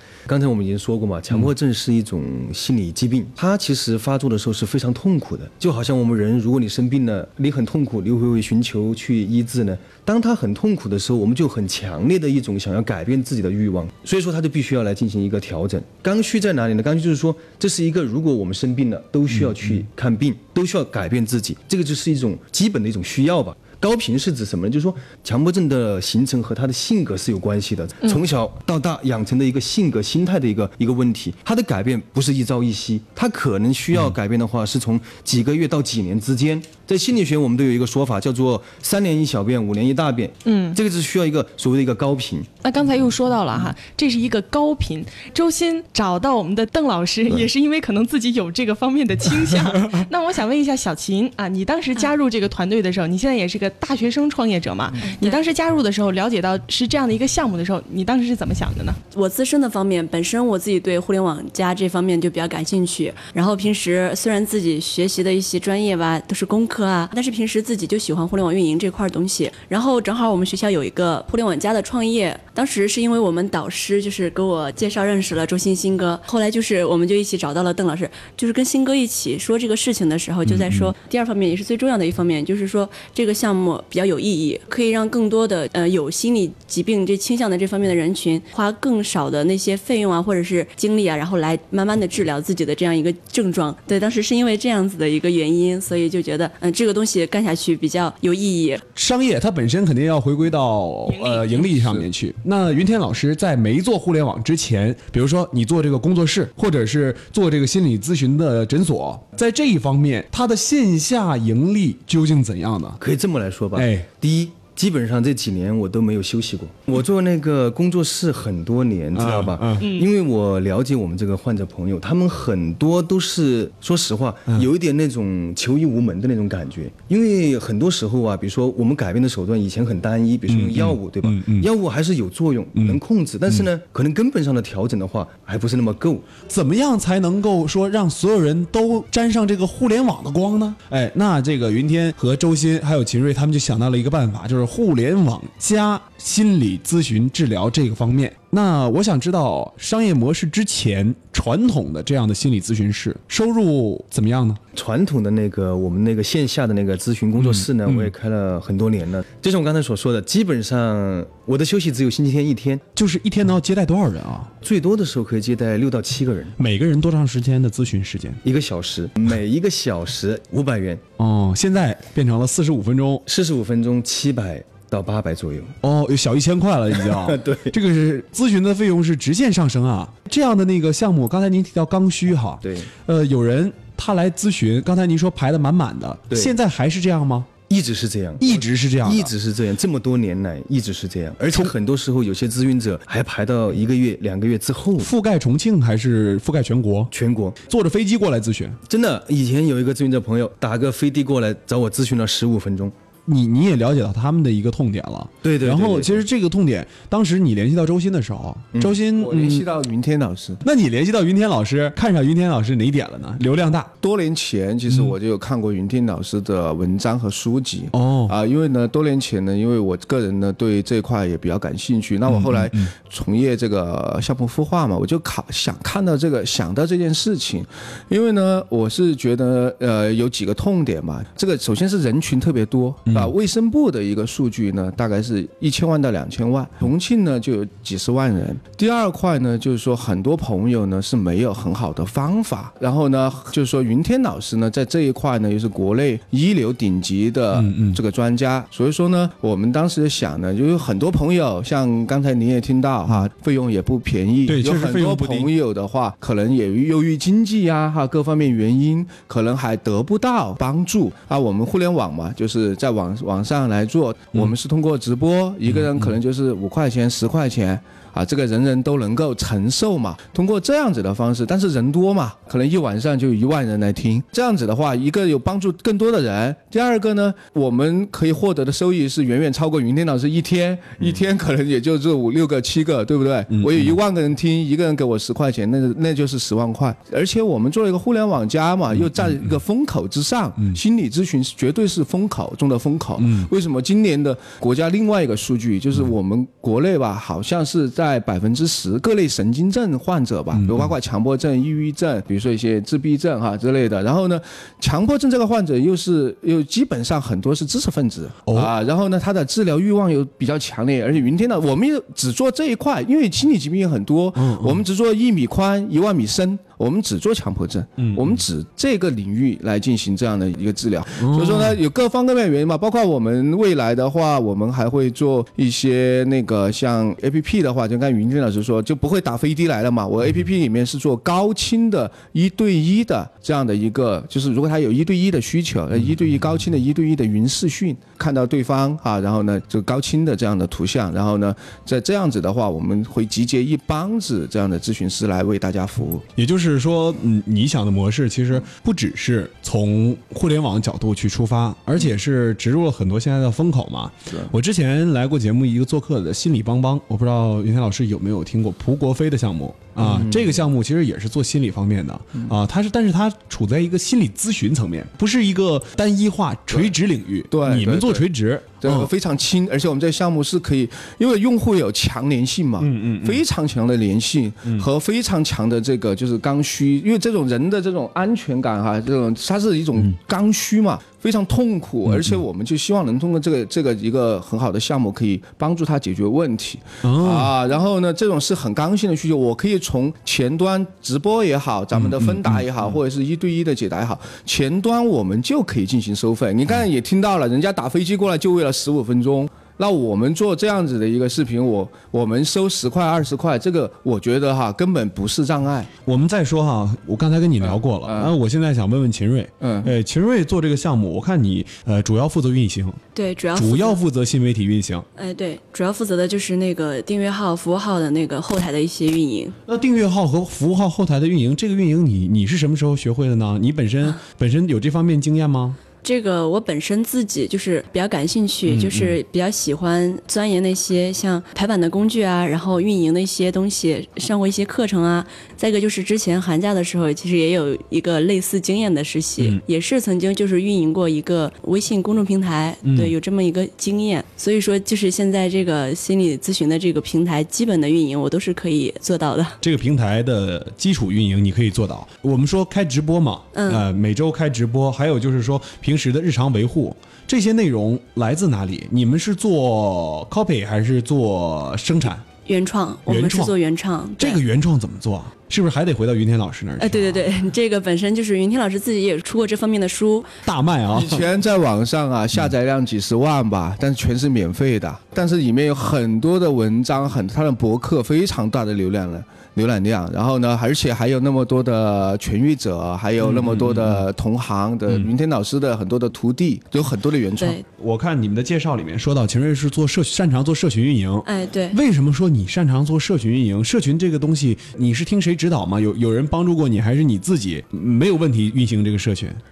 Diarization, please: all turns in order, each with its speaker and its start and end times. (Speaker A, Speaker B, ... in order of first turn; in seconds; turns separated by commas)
Speaker A: 0.3-42.5, Speaker B: 40.4-40.8, Speaker B: 42.6-59.0, Speaker C: 55.1-55.4, Speaker C: 59.1-98.8, Speaker D: 80.5-80.9, Speaker D: 98.9-113.0, Speaker B: 101.1-101.7, Speaker A: 113.0-136.3, Speaker D: 113.7-114.1, Speaker D: 119.1-119.8, Speaker B: 119.8-120.1, Speaker D: 130.5-131.7, Speaker D: 136.4-154.6, Speaker A: 154.7-162.8, Speaker D: 157.4-158.1, Speaker D: 162.9-164.5, Speaker A: 164.6-166.6, Speaker D: 166.6-168.4, Speaker A: 168.4-171.0, Speaker D: 171.2-173.2, Speaker A: 173.2-175.7, Speaker D: 175.8-187.5, Speaker A: 177.0-177.7, Speaker A: 182.6-182.9, Speaker A: 186.3-186.5, Speaker A: 187.7-195.1, Speaker D: 188.4-189.3, Speaker D: 195.0-197.1, Speaker A: 197.1-197.6, Speaker D: 197.6-198.8, Speaker A: 198.9-202.9, Speaker D: 203.3-209.7, Speaker A: 205.4-206.2, Speaker E: 209.1-210.6, Speaker D: 210.6-213.9, Speaker E: 214.0-346.2, Speaker D: 214.9-215.1, Speaker D: 217.9-218.3, Speaker D: 222.3-222.9, Speaker D: 233.1-233.3, Speaker D: 247.5-248.0, Speaker D: 254.5-255.5, Speaker D: 265.7-266.1, Speaker D: 283.5-283.9, Speaker D: 289.0-289.5, Speaker D: 293.2-293.5, Speaker D: 300.5-300.9, Speaker D: 308.5-308.7, Speaker D: 314.3-314.8, Speaker D: 318.0-318.4, Speaker D: 321.2-321.8, Speaker D: 346.4-369.1, Speaker E: 367.5-368.2, Speaker E: 368.8-405.9, Speaker D: 372.8-373.4, Speaker D: 382.1-382.4, Speaker D: 387.0-387.5, Speaker D: 391.9-392.6, Speaker D: 406.0-413.0, Speaker E: 407.6-408.3, Speaker E: 409.6-409.9, Speaker C: 413.1-414.0, Speaker D: 413.5-415.1, Speaker C: 415.1-419.6, Speaker D: 419.7-425.8, Speaker C: 426.0-449.6, Speaker D: 428.6-429.2, Speaker D: 442.8-443.1, Speaker D: 449.6-462.2, Speaker C: 453.5-453.8, Speaker C: 462.4-464.4, Speaker D: 463.1-463.6, Speaker D: 464.2-467.2, Speaker C: 466.8-470.3, Speaker D: 470.4-471.3, Speaker E: 470.9-487.6, Speaker D: 483.2-484.0, Speaker D: 487.7-499.4, Speaker C: 491.2-491.8